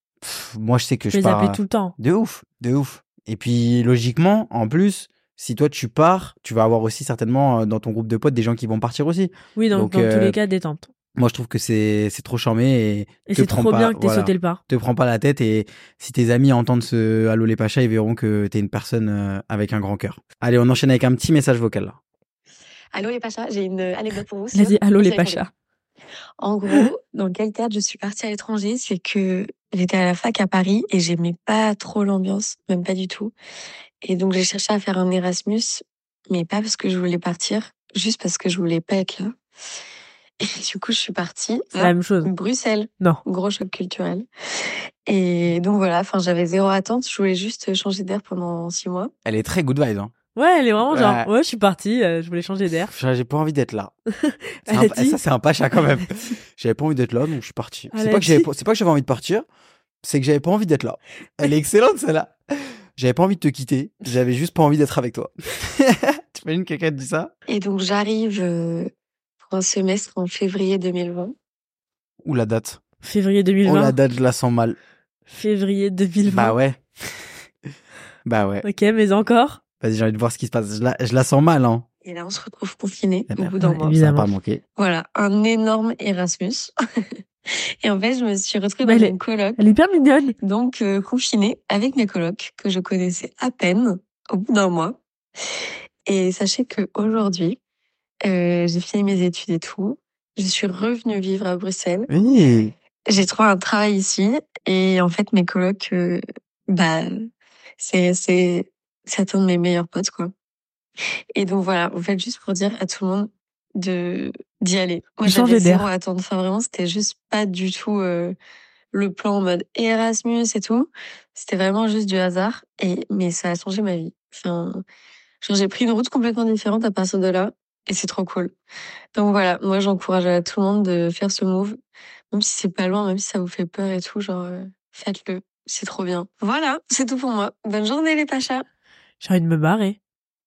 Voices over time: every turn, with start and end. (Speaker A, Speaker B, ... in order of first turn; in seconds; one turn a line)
Speaker A: 0.2-10.3
Speaker B: 1.1-1.9
Speaker B: 9.6-10.9
Speaker A: 11.2-21.9
Speaker B: 13.3-14.6
Speaker C: 22.9-25.4
Speaker B: 24.5-25.5
Speaker C: 26.4-33.3
Speaker C: 34.0-39.4
Speaker C: 40.4-44.2
Speaker B: 41.8-42.3
Speaker C: 45.1-49.1
Speaker A: 49.2-50.1
Speaker B: 50.4-52.9
Speaker A: 50.9-51.3
Speaker A: 52.8-53.9
Speaker B: 54.2-55.2
Speaker A: 54.6-59.4
Speaker B: 57.9-58.5
Speaker A: 60.0-67.3
Speaker C: 67.5-68.9
Speaker C: 69.4-71.3
Speaker A: 72.2-72.8
Speaker B: 73.0-74.0
Speaker A: 73.6-74.8
Speaker B: 75.3-76.6
Speaker A: 76.2-77.4
Speaker A: 78.2-78.6
Speaker B: 78.6-79.6
Speaker A: 79.8-81.8
Speaker C: 82.0-83.9
Speaker A: 83.3-84.6
Speaker B: 83.6-84.3
Speaker C: 84.8-86.7
Speaker C: 87.8-89.6
Speaker B: 88.8-90.3
Speaker C: 90.4-95.0
Speaker C: 96.1-97.6
Speaker C: 98.2-102.1
Speaker A: 102.1-102.7
Speaker C: 103.1-107.2
Speaker C: 107.8-110.3
Speaker C: 111.3-118.3
Speaker B: 115.2-115.9
Speaker C: 118.9-124.8
Speaker C: 125.4-128.5
Speaker C: 129.1-131.8
Speaker C: 132.3-138.6
Speaker B: 139.2-140.0